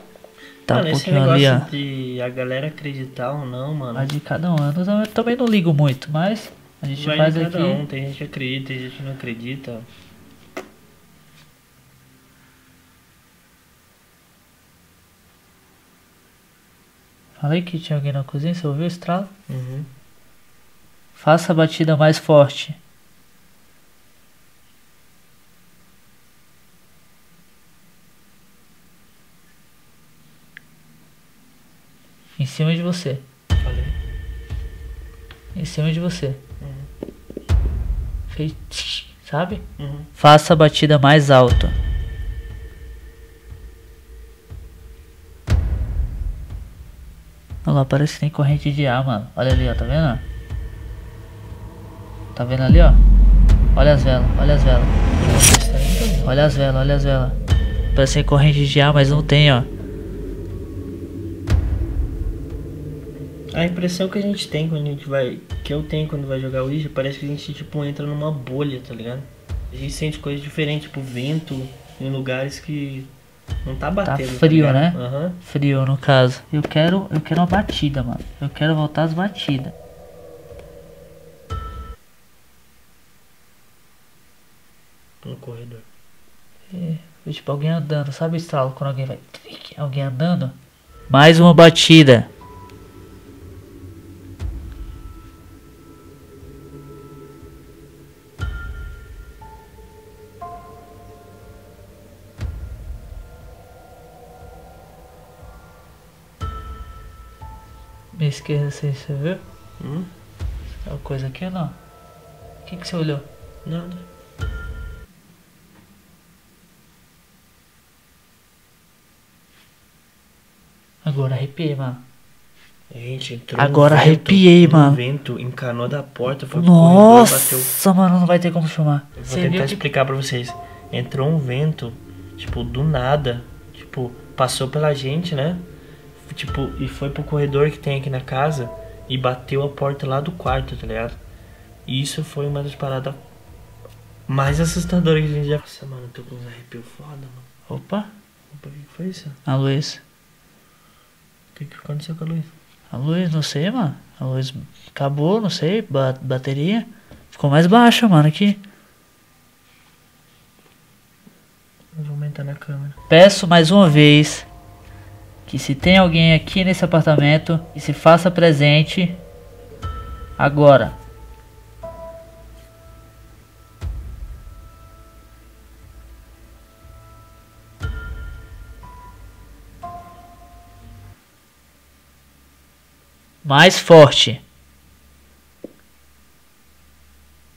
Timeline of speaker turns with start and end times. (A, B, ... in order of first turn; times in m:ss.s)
0:00.7-0:01.7 A
0:00.7-0:04.1 B
0:03.9-0:07.8 A
0:07.0-0:09.8 B
0:17.4-0:19.3 A
0:19.5-0:19.9 B
0:21.1-0:22.8 A
0:32.4-0:33.2 A
0:33.6-0:33.9 B
0:35.5-0:36.4 A
0:36.6-0:36.9 B
0:38.3-0:39.6 A
0:39.8-0:40.1 B
0:40.2-0:41.7 A
0:47.6-0:50.2 A
0:52.3-0:53.0 A
0:53.7-0:54.9 A
0:55.2-0:56.3 B
0:56.2-0:57.4 A
0:57.9-0:59.7 A
1:03.5-1:13.1 B
1:13.6-1:15.4 B
1:14.0-1:19.7 A
1:25.2-1:25.8 B
1:26.7-1:30.5 A
1:31.1-1:32.3 A
1:48.1-1:49.4 A
1:49.8-1:50.1 B
1:50.8-1:51.8 A
1:52.6-1:53.2 A
1:53.6-1:54.0 B
2:01.0-2:02.0 A
2:02.9-2:07.7 B
2:03.6-2:05.0 A
2:06.5-2:09.8 A
2:09.2-2:15.6 B
2:16.2-2:21.2 B
2:21.9-2:23.2 B
2:24.3-2:27.5 B
2:27.7-2:28.1 A
2:28.5-2:29.4 B
2:29.4-2:30.0 A
2:31.5-2:32.5 B
2:32.9-2:38.6 A
2:41.9-2:43.0 B
2:43.1-2:44.5 A
2:45.5-2:49.2 A
2:50.4-2:51.0 A
3:03.4-3:04.4 A